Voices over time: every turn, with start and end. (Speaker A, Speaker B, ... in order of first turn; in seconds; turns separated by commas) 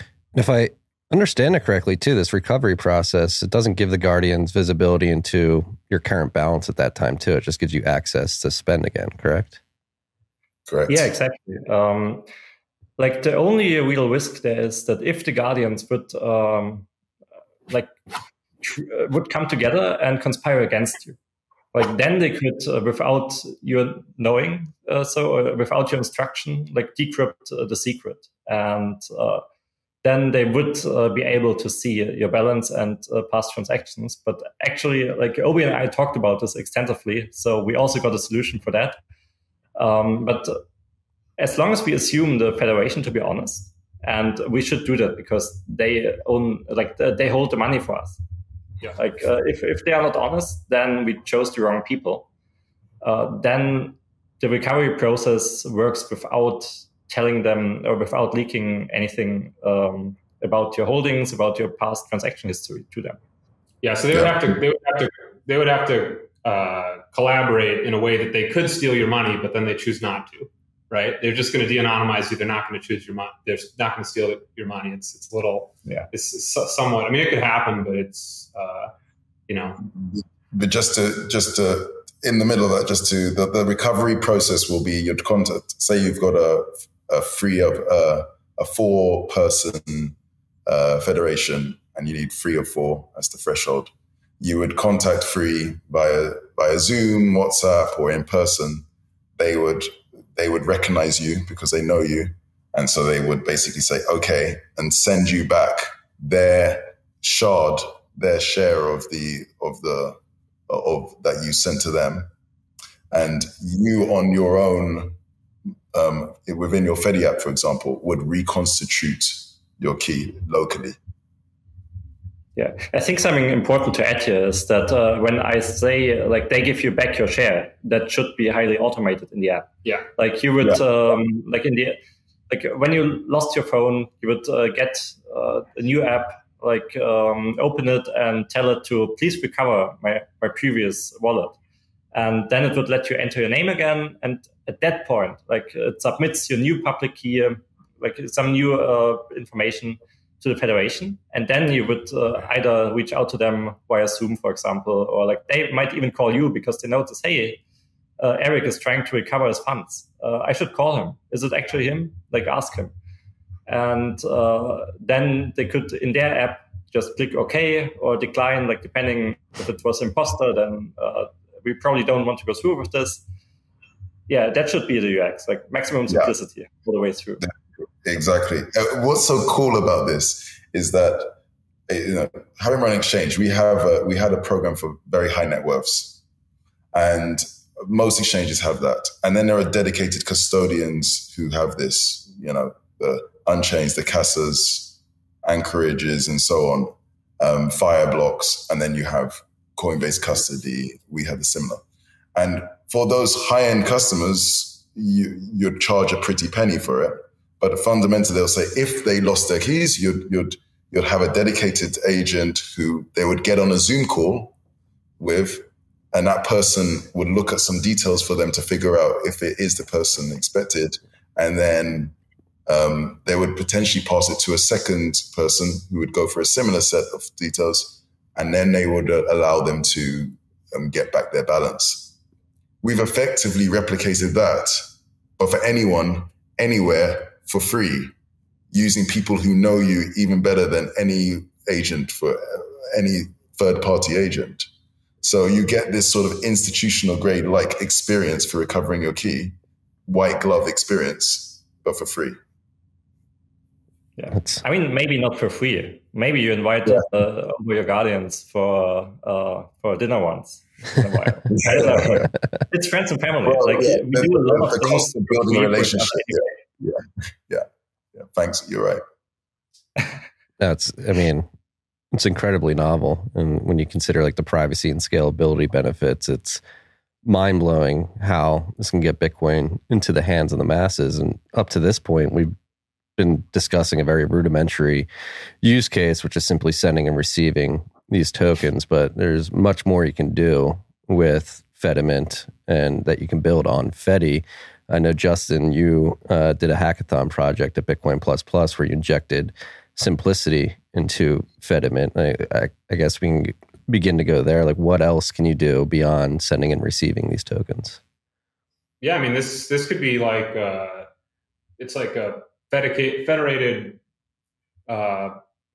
Speaker A: 0.3-9.6, Speaker B: 10.7-11.1, Speaker C: 10.9-12.3, Speaker C: 13.0-16.9, Speaker C: 17.7-18.0, Speaker C: 18.6-21.2, Speaker C: 21.7-29.4, Speaker C: 30.0-39.0, Speaker C: 39.8-40.6, Speaker C: 41.4-48.2, Speaker C: 49.0-52.3, Speaker C: 53.0-63.2, Speaker D: 63.8-78.9, Speaker B: 64.1-64.5, Speaker D: 79.5-79.8, Speaker B: 79.8-90.2, Speaker B: 90.7-98.9, Speaker B: 99.4-110.2, Speaker B: 110.7-112.3, Speaker B: 113.1-115.2, Speaker B: 115.9-121.0, Speaker C: 122.6-132.0, Speaker C: 132.5-141.6, Speaker C: 142.1-157.6, Speaker C: 158.2-162.9, Speaker C: 163.7-173.2, Speaker C: 174.3-177.4, Speaker B: 178.0-181.3, Speaker B: 181.9-186.2, Speaker B: 186.9-201.8, Speaker B: 202.3-214.5, Speaker B: 215.2-222.1, Speaker B: 222.7-232.1, Speaker B: 232.8-234.8, Speaker B: 235.4-238.1, Speaker B: 238.7-244.7, Speaker B: 245.2-249.6, Speaker B: 250.1-252.4, Speaker C: 254.2-266.5, Speaker B: 261.5-262.3, Speaker B: 263.4-269.0, Speaker A: 270.6-271.5, Speaker A: 272.1-276.6, Speaker A: 277.2-282.5, Speaker A: 283.2-285.1, Speaker A: 285.6-308.0, Speaker D: 309.0-311.1, Speaker D: 311.8-314.0, Speaker D: 314.9-315.4